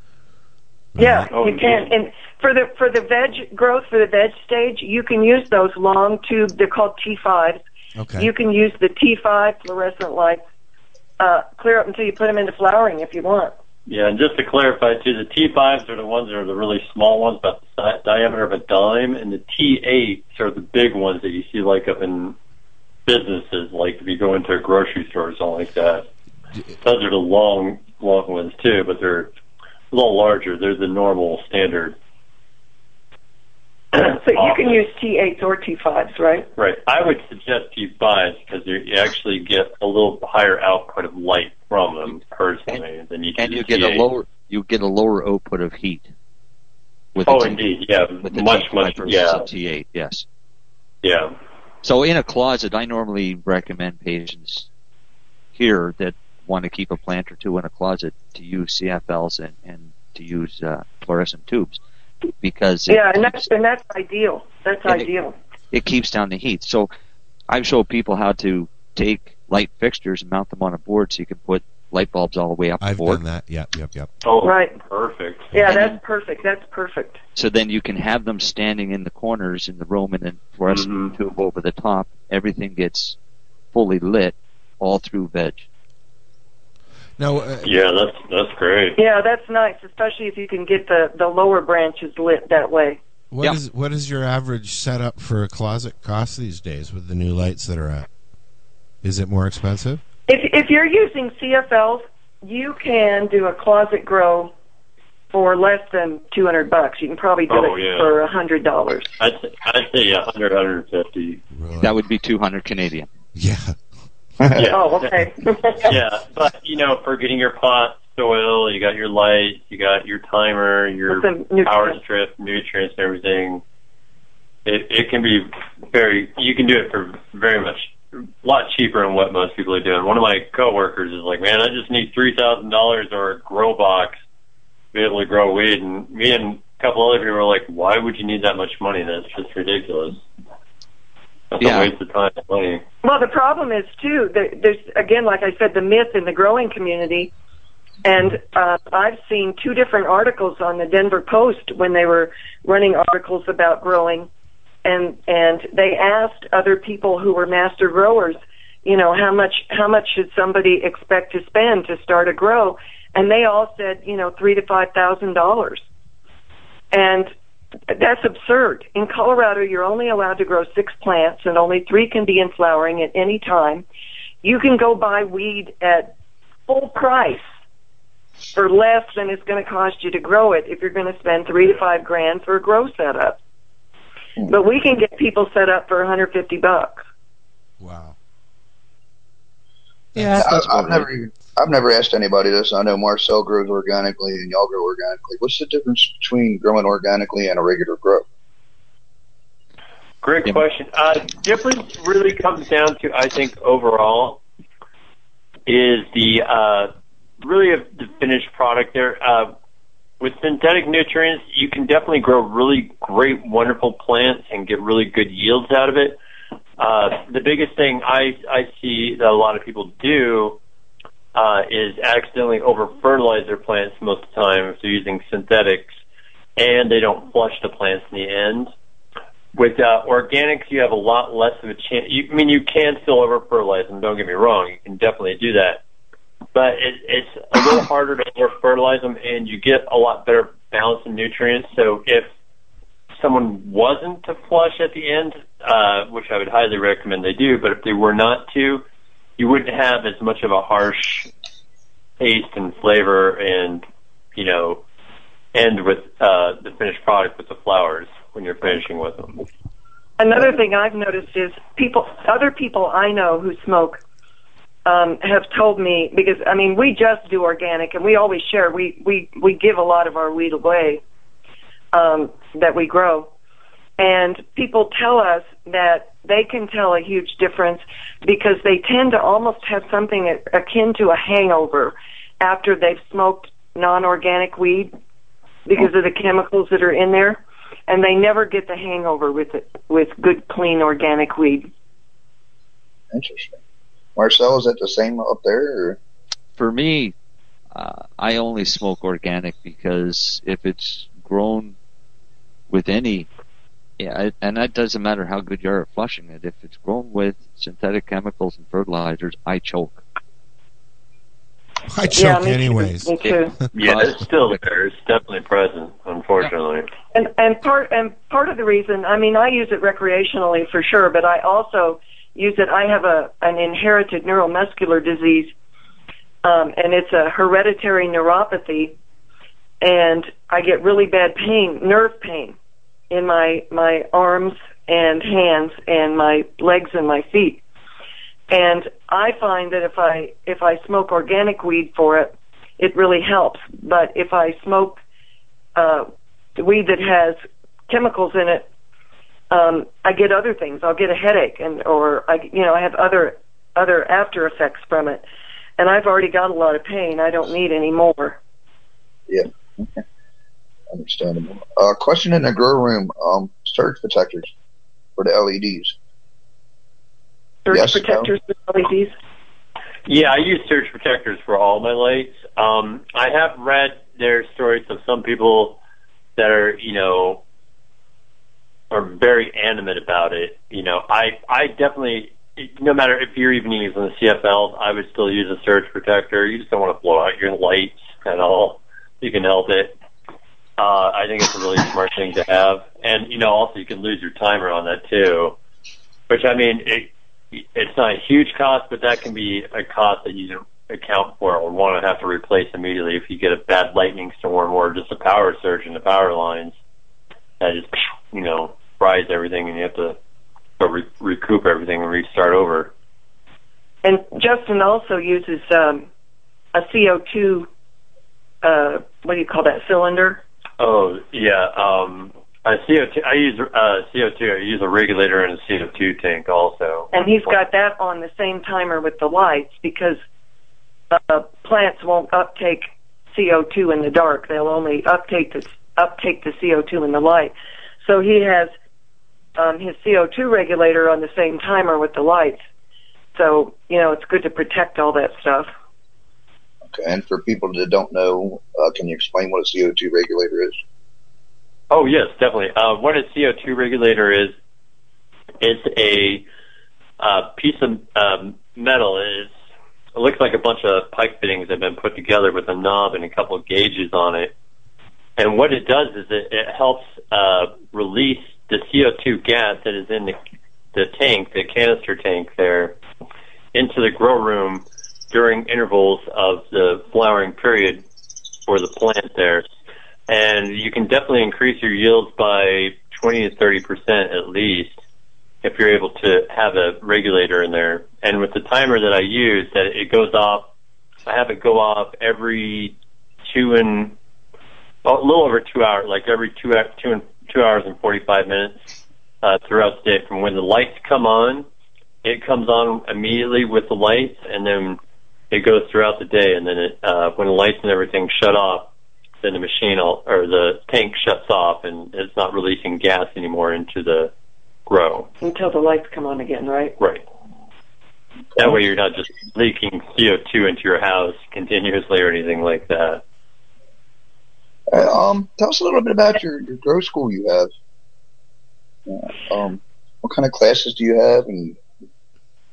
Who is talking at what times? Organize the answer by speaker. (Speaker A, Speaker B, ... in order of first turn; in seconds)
Speaker A: 0.9-1.3, 8.0-8.3, 72.8-74.1, 87.2-87.8, 93.3-98.1, 99.0-100.0, 111.5-112.0, 113.3-113.8, 187.8-188.2, 190.1-190.4, 311.9-313.6
Speaker B: 1.0-7.6, 8.2-10.4, 11.2-13.5, 34.0-36.5, 62.9-65.3, 74.4-74.8, 75.5-77.2, 89.0-93.0, 100.3-104.5, 105.3-109.1, 114.7-115.9, 121.1-122.0, 143.0-147.3, 148.0-154.3, 154.8-165.8, 166.9-167.3, 167.9-173.8, 174.4-176.1, 176.7-177.4, 178.5-183.4, 184.5-187.0, 260.2-264.0, 264.9-271.0, 271.9-273.3, 274.0-284.9, 285.6-291.7, 312.1-313.6, 317.1-325.5, 326.4-328.9, 329.8-332.6, 333.1-337.6, 338.5-345.0, 345.8-348.7, 349.5-355.2, 355.8-358.4, 367.6-369.1, 414.0-416.1, 416.7-417.7, 418.6-420.4, 427.1-430.2, 431.1-438.7, 439.6-442.6, 443.4-445.7, 515.4-516.9
Speaker C: 1.3-1.9, 13.9-22.4, 23.1-26.1, 26.8-29.3, 29.9-32.0, 34.0-34.8, 36.6-44.1, 47.3-49.4, 51.0-51.3, 74.2-75.5, 80.7-81.1, 87.6-89.0, 107.5-108.1, 109.2-111.4, 114.5-115.2, 115.8-123.6, 124.6-134.2, 134.9-140.2, 141.5-142.8, 200.2-204.4, 205.7-209.5, 210.2-216.2, 216.8-220.6, 221.3-226.0, 226.6-228.7, 229.6-235.8, 236.5-242.3, 243.2-248.8, 249.4-251.3, 252.2-254.8, 255.5-259.4, 313.7-316.9, 370.1-375.8, 376.4-377.4, 378.9-390.0, 390.8-395.6, 396.3-406.8, 407.6-410.2, 410.8-412.9, 420.8-427.6, 451.9-454.6, 455.6-456.4, 457.2-459.5, 460.1-464.6, 465.4-470.4, 470.9-472.9, 473.7-478.1, 478.7-479.7, 480.3-484.9, 485.6-490.7, 491.3-493.0, 493.5-494.1, 495.1-498.9, 499.4-501.6, 502.2-505.0, 505.5-514.3, 514.9-515.3, 517.0-517.3, 518.6-523.2
Speaker D: 43.4-46.1, 47.1-50.2, 51.8-54.7, 55.5-61.8, 62.4-63.5, 65.7-66.9, 67.5-73.2, 75.6-76.0, 77.3-83.2, 83.7-85.7, 111.8-113.1, 141.6-141.9, 190.2-191.1, 296.6-297.1, 297.7-301.8, 302.7-303.3, 304.0-310.0, 313.7-314.6
Speaker E: 114.4-114.7, 190.3-198.2, 293.1-293.6, 294.1-296.0, 359.3-360.0, 360.9-364.5, 365.2-365.9, 367.7-368.3, 446.9-450.8, 524.9-527.7, 529.1-531.8